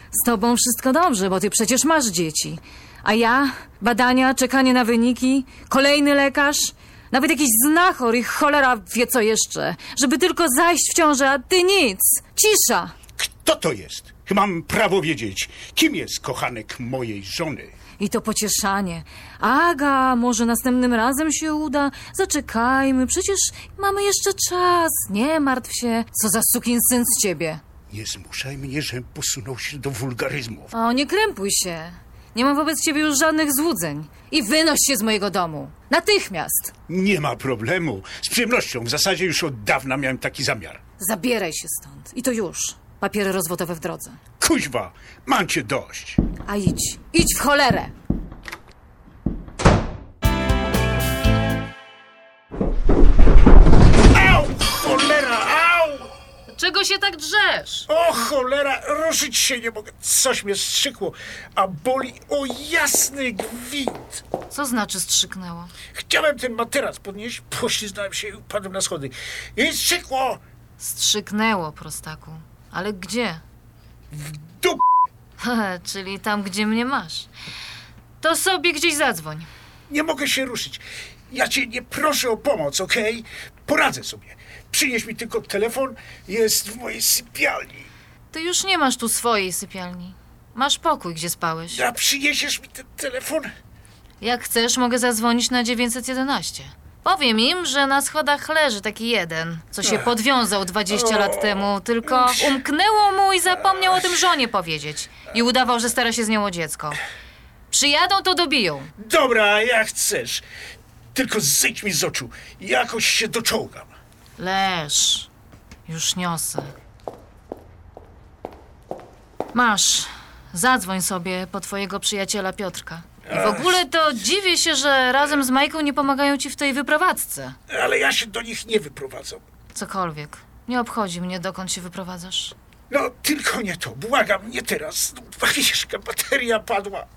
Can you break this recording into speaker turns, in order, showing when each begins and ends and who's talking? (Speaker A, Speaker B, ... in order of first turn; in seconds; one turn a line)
Speaker A: 0.1-12.9
Speaker B: 13.2-17.8
Speaker A: 18.0-27.6
Speaker B: 27.9-30.7
Speaker A: 30.7-36.7
Speaker B: 36.9-40.8
Speaker A: 41.0-44.2
Speaker B: 44.4-46.2
Speaker A: 46.4-47.9
Speaker B: 54.1-56.1
Speaker A: 56.5-57.9
Speaker B: 57.9-64.2
Speaker A: 64.5-65.7
Speaker B: 65.9-70.4
Speaker A: 70.8-73.4
Speaker B: 74.1-74.8
Speaker A: 75.4-77.3
Speaker A: 78.2-79.5
Speaker B: 79.9-87.9
Speaker A: 88.3-91.8
Speaker B: 91.7-93.5
Speaker A: 94.2-107.0
Speaker B: 99.8-100.1
Speaker B: 100.9-102.6
Speaker A: 107.7-108.9
Speaker B: 109.0-110.4
Speaker B: 111.1-113.9
Speaker A: 114.4-115.3
Speaker A: 115.8-116.7
Speaker A: 119.5-127.5
Speaker B: 123.3-123.8
Speaker B: 127.7-129.4
Speaker A: 129.7-132.5
Speaker B: 132.9-137.1